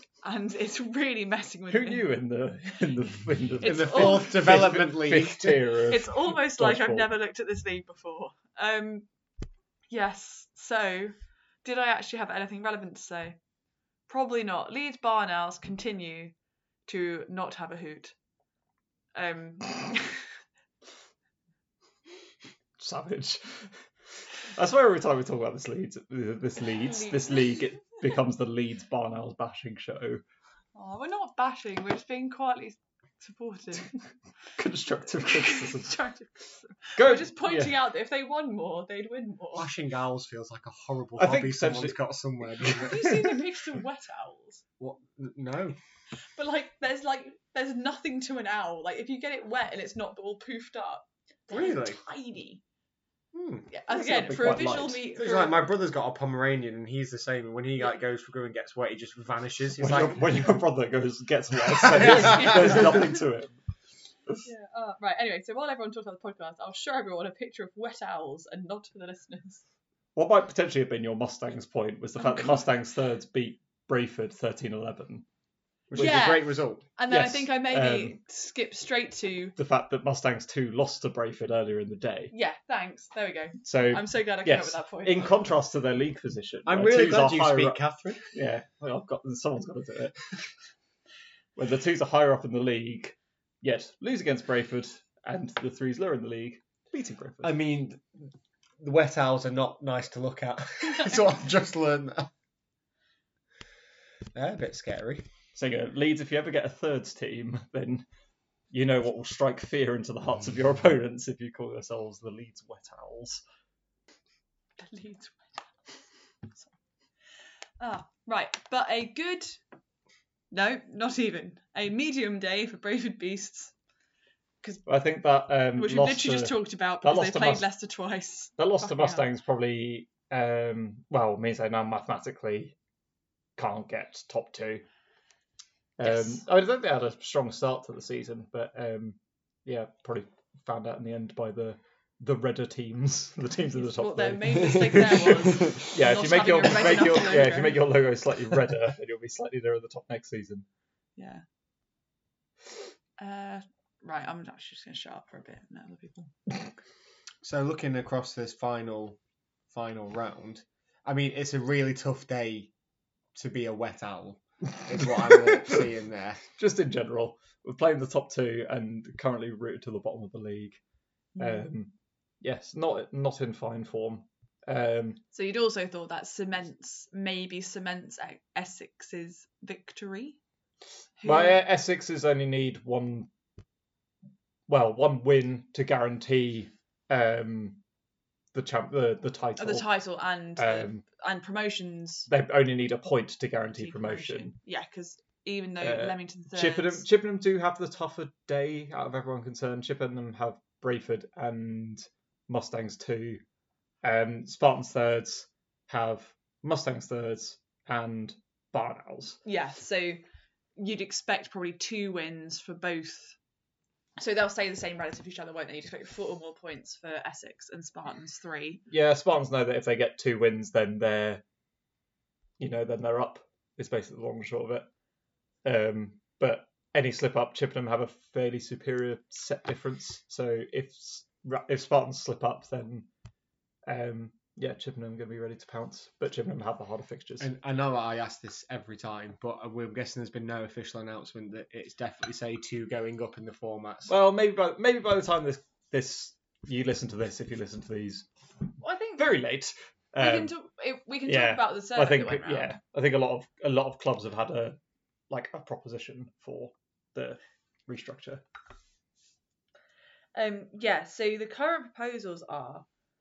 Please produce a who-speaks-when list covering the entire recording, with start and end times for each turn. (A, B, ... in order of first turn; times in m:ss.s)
0:00.2-0:02.0 A
0:01.7-0:07.1 B
0:03.6-0:04.4 A
0:03.6-0:05.6 C
0:05.9-0:09.0 A
0:09.9-0:13.4 A
0:14.1-0:16.3 A
0:16.8-0:18.1 A
0:19.1-0:20.2 A
0:22.8-0:23.7 B
0:24.5-0:30.2 B
0:26.8-0:27.5 A
0:30.7-0:33.9 A
0:34.6-0:36.0 B
0:35.2-0:39.7 A
0:37.0-0:37.8 B
0:39.6-0:43.1 C
0:41.2-0:42.0 B
0:42.7-0:44.6 A
0:44.8-0:45.8 C
0:46.4-0:52.6 A
0:51.5-0:52.0 C
0:53.3-0:53.7 C
0:53.7-0:55.6 A
0:53.9-0:55.0 B
0:55.0-1:00.5 C
0:59.8-1:03.6 B
1:01.8-1:02.9 C
1:02.1-1:02.9 A
1:04.4-1:09.6 A
1:10.1-1:15.2 B
1:12.2-1:12.7 A
1:15.9-1:16.4 B
1:15.9-1:16.8 C
1:15.9-1:19.6 A
1:17.1-1:18.2 B
1:19.6-1:22.3 B
1:22.3-1:25.4 A
1:23.6-1:27.8 B
1:26.6-1:28.3 C
1:28.3-1:30.5 B
1:31.6-1:37.6 B
1:37.4-1:38.2 C
1:38.8-1:42.3 C
1:44.3-1:45.2 C
1:45.5-1:48.0 B
1:48.7-1:53.4 B
1:54.8-1:55.7 A
1:57.8-1:59.6 A
2:00.5-2:03.7 A
2:04.9-2:07.6 B
2:05.8-2:09.2 A
2:08.6-2:12.8 B
2:13.6-2:14.8 B
2:16.0-2:25.2 B
2:16.0-2:16.4 A
2:23.7-2:27.8 A
2:25.8-2:30.6 B
2:31.2-2:31.4 A
2:33.2-2:36.3 A
2:37.4-2:39.2 C
2:39.7-2:42.7 C
2:43.3-2:46.4 C
2:45.2-2:45.7 B
2:46.6-2:50.8 B
2:51.3-2:51.6 A
2:51.4-2:55.2 B
2:55.3-3:00.4 A
3:01.2-3:01.6 A
3:01.2-3:03.3 B
3:04.7-3:07.8 B
3:08.5-3:09.9 B
3:09.6-3:12.3 A
3:10.6-3:11.0 B
3:12.3-3:14.6 B
3:13.8-3:17.0 A
3:15.8-3:23.4 B
3:24.0-3:29.4 B
3:29.4-3:30.2 A
3:30.8-3:33.4 A
3:34.2-3:38.8 A
3:38.9-3:41.4 B
3:42.6-3:44.9 B
3:45.6-3:53.1 B
3:53.9-3:57.5 B
3:57.4-4:04.1 C
4:04.1-4:08.2 B
4:08.8-4:09.4 A
4:09.2-4:10.5 B
4:10.2-4:12.7 A
4:11.2-4:14.8 B
4:15.3-4:18.4 B
4:20.3-4:22.8 A